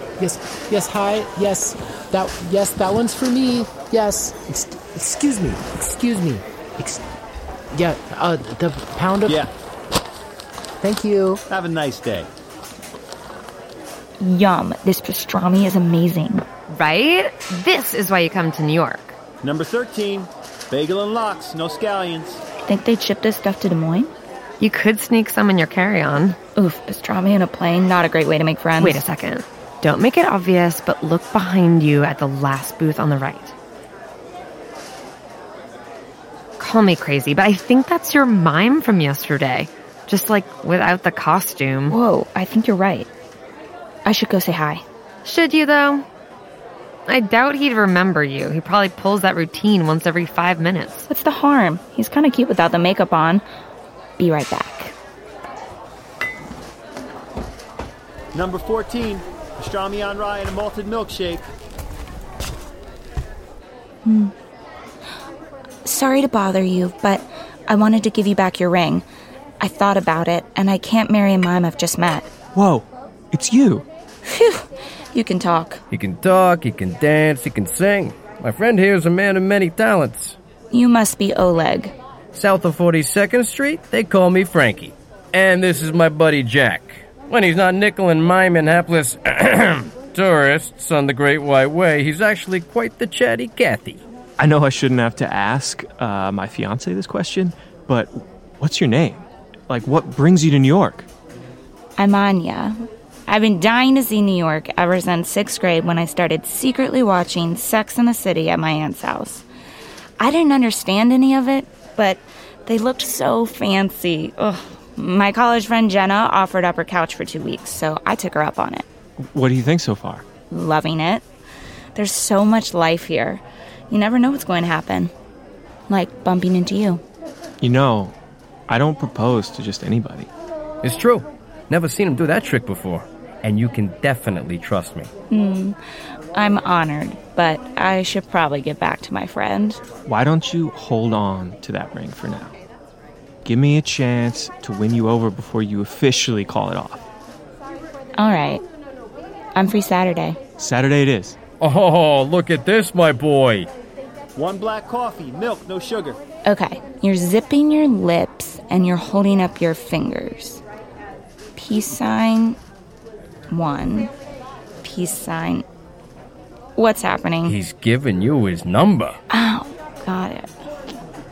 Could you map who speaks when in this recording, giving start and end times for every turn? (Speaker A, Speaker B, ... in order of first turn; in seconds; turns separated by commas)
Speaker A: 0.2-7.0, Speaker A: 7.7-9.4, Speaker A: 10.8-11.4, Speaker B: 11.5-12.3, Speaker C: 14.2-16.4, Speaker D: 16.7-19.1, Speaker B: 19.4-22.4, Speaker C: 22.6-24.1, Speaker D: 24.6-26.4, Speaker C: 26.6-29.0, Speaker D: 28.8-33.5, Speaker D: 36.6-42.0, Speaker C: 41.9-43.1, Speaker C: 44.0-44.8, Speaker D: 45.2-46.0, Speaker D: 47.1-51.1, Speaker C: 51.1-53.4, Speaker C: 54.2-54.9, Speaker B: 58.3-61.5, Speaker C: 64.0-64.3, Speaker C: 65.8-69.0, Speaker C: 69.6-72.3, Speaker E: 72.5-73.8, Speaker C: 74.3-75.8, Speaker F: 75.9-80.3, Speaker C: 80.7-81.9, Speaker F: 82.3-94.0, Speaker E: 94.4-101.1, Speaker C: 102.0-102.8, Speaker C: 103.3-109.4, Speaker C: 110.2-118.8, Speaker E: 119.2-120.2, Speaker C: 120.5-121.2, Speaker C: 121.9-125.1, Speaker C: 125.9-127.0, Speaker E: 127.6-128.1, Speaker E: 128.7-130.3, Speaker F: 130.8-135.1, Speaker C: 135.3-135.8, Speaker C: 136.3-139.8, Speaker E: 140.1-142.5, Speaker E: 143.4-147.0, Speaker C: 148.2-148.6, Speaker C: 149.5-150.4, Speaker E: 150.6-151.4, Speaker F: 151.6-153.7, Speaker B: 154.3-156.2, Speaker C: 156.4-160.6, Speaker C: 161.6-162.6, Speaker C: 163.5-164.1, Speaker C: 164.8-165.6, Speaker C: 166.8-167.6, Speaker F: 167.4-169.2, Speaker C: 169.3-170.5